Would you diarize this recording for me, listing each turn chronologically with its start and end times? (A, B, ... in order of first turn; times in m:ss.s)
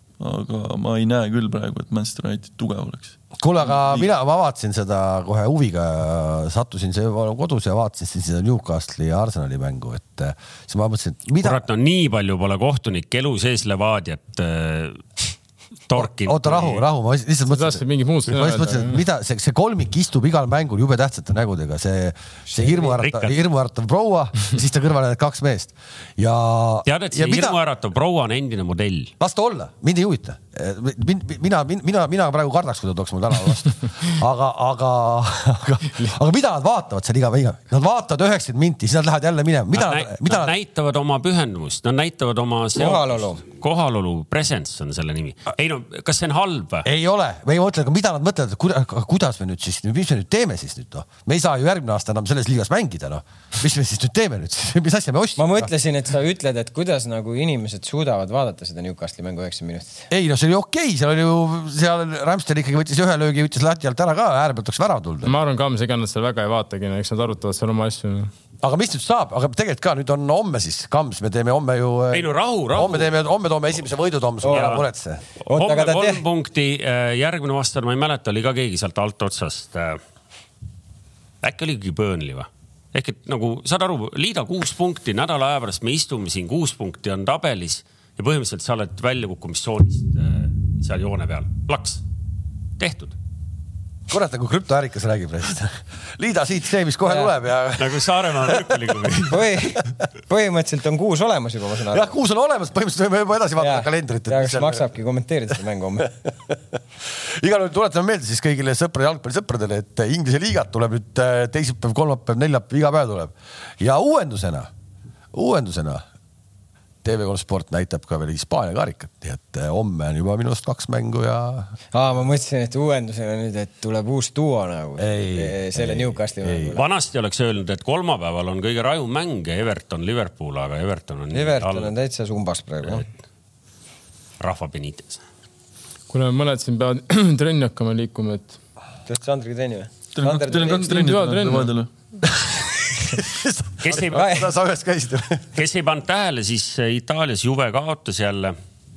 0:00.2-0:04.1 A
0:03.4-0:11.6 B
0:11.4-0:15.3 C
0:15.9-0:16.8 C
0:16.0-0:27.6 B
0:17.5-0:19.0 D
0:22.5-0:22.9 E
0:22.9-0:23.3 C
0:26.9-0:29.1 C
0:29.2-0:40.5 B
0:39.7-0:46.9 C
0:42.8-0:43.4 E
0:46.8-0:55.7 B
0:55.4-1:00.1 E
1:00.1-1:05.3 B
1:05.2-1:08.3 D
1:08.6-1:15.2 B
1:12.1-1:13.1 C
1:14.4-1:14.8 E
1:14.5-1:14.8 C
1:15.4-1:20.0 C
1:15.5-1:16.2 E
1:21.4-1:32.0 C
1:32.8-1:33.2 C
1:34.1-1:39.8 B
1:37.1-1:37.3 E
1:37.8-1:39.4 C
1:39.3-1:42.1 E
1:41.9-1:44.8 B
1:43.6-1:46.1 E
1:46.0-1:54.7 B
1:55.3-1:56.0 B
1:57.0-2:01.7 B
2:01.9-2:06.8 E
2:05.0-2:06.8 B
2:06.7-2:11.9 C
2:11.3-2:13.0 E
2:14.4-2:15.2 C
2:16.1-2:18.6 D
2:19.1-2:20.9 E
2:20.1-2:21.9 A
2:20.6-2:21.7 D
2:22.3-2:25.4 B
2:23.8-2:24.5 C
2:24.1-2:24.4 E
2:25.6-2:28.6 C